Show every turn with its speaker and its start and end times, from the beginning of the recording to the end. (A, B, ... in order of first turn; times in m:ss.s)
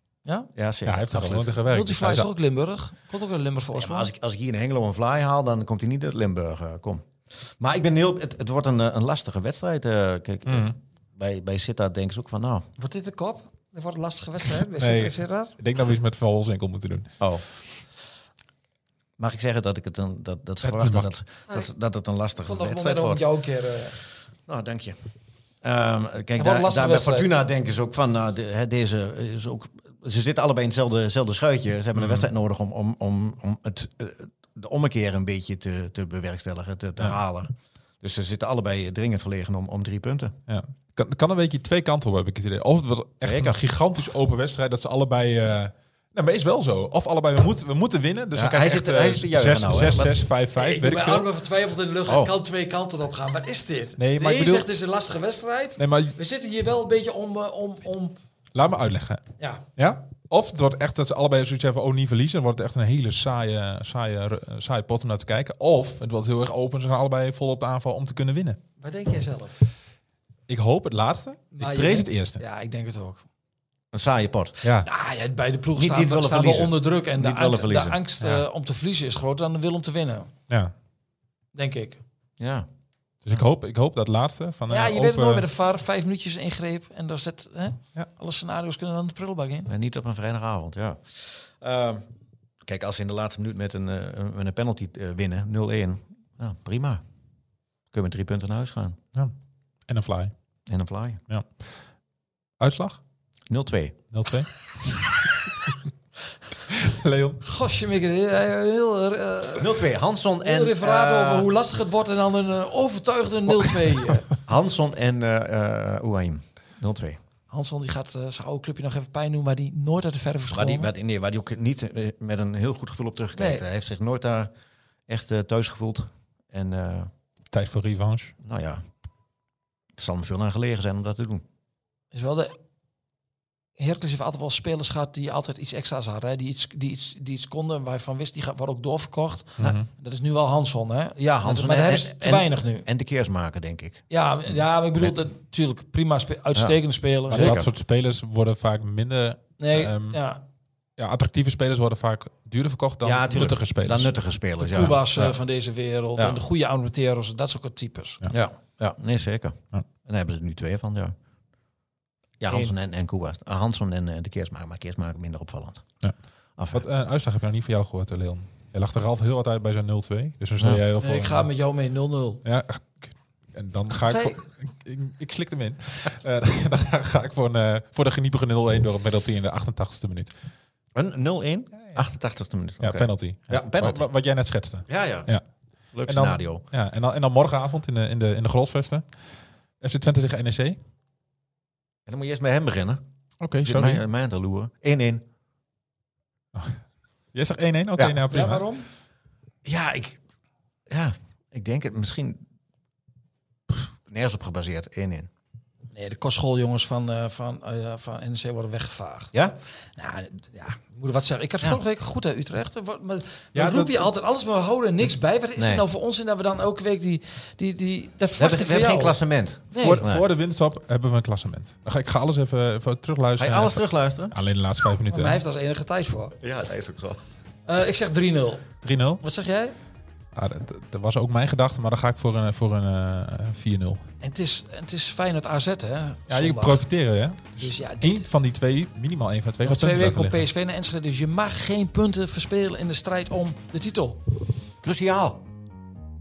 0:00.5-0:01.6 A
0:00.8-0:02.3 B
0:01.7-0:04.1 C
0:03.8-0:12.7 A
0:10.5-0:10.8 B
0:12.8-0:15.5 C
0:14.8-0:17.1 B
0:17.2-0:17.4 A
0:19.2-0:23.2 A
0:20.6-0:21.1 B
0:22.4-0:24.0 C
0:24.4-0:25.0 A
0:25.6-0:40.3 A
0:26.4-0:27.3 C
0:31.9-0:32.3 B
0:40.5-0:51.3 B
0:43.2-0:43.6 A
0:48.3-0:50.2 A
0:50.5-0:58.2 C
0:52.1-0:52.3 A
0:54.0-0:54.7 B
0:55.8-0:56.2 B
0:58.5-0:59.2 B
0:59.4-0:59.6 C
0:59.8-1:08.6 B
1:08.8-1:09.6 C
1:10.5-1:12.4 B
1:11.5-1:13.2 C
1:13.9-1:14.6 A
1:14.6-1:14.9 B
1:14.8-1:20.3 C
1:15.8-1:18.0 A
1:21.5-1:22.0 C
1:22.4-1:22.7 A
1:23.2-1:25.4 B
1:24.7-1:29.7 C
1:29.7-1:32.0 A
1:32.6-1:37.0 A
1:37.9-1:39.0 A
1:39.9-1:40.3 B
1:40.7-1:41.2 A
1:42.6-1:43.0 B
1:43.5-1:44.0 A
1:44.1-1:44.6 B
1:46.7-1:47.4 B
1:47.4-1:49.8 C
1:49.6-1:51.5 A
1:50.4-1:54.3 C
1:53.7-1:54.4 B
1:54.4-1:57.2 A
1:57.5-2:00.9 C
2:00.5-2:04.5 A
2:03.3-2:03.6 C
2:05.1-2:07.1 A
2:07.5-2:08.3 B
2:08.4-2:08.8 A
2:10.0-2:11.4 A
2:12.1-2:12.6 C
2:13.8-2:22.8 C
2:19.6-2:19.9 B
2:21.2-2:24.0 A
2:24.1-2:27.6 C
2:27.3-2:27.7 A
2:27.3-2:30.2 B
2:29.6-2:30.4 C
2:31.0-2:34.1 B
2:33.0-2:35.4 A
2:34.6-2:38.2 C
2:36.2-2:36.4 A
2:38.3-2:41.1 A
2:42.4-2:45.8 A
2:42.5-2:42.7 C
2:46.6-2:46.9 A
2:46.7-2:51.5 B
2:51.0-2:52.4 C
2:52.4-3:00.3 B
2:54.0-2:54.4 C
3:00.9-3:04.0 A
3:02.8-3:05.4 B
3:04.9-3:05.3 A
3:05.9-3:06.6 A
3:06.0-3:09.0 B
3:09.8-3:10.8 B
3:12.1-3:13.0 A
3:13.4-3:14.0 B
3:13.6-3:15.2 A
3:17.3-3:18.6 B
3:18.3-3:18.9 C
3:19.6-3:20.2 A
3:20.9-3:22.4 A
3:23.7-3:25.3 A
3:25.9-3:29.3 C
3:30.0-3:39.2 C
3:33.5-3:34.1 B
3:35.6-3:35.8 A
3:38.4-3:40.3 A
3:39.7-3:40.0 C
3:39.7-3:45.4 B
3:43.4-3:44.3 A
3:45.1-3:46.3 C
3:46.4-3:47.2 A
3:47.7-3:48.7 C
3:48.8-3:49.2 B
3:49.2-3:49.7 C
3:50.3-3:54.0 B
3:54.2-3:56.8 C
3:56.3-4:00.4 B
3:57.6-3:58.2 C
3:59.6-4:04.2 C
4:04.8-4:05.4 A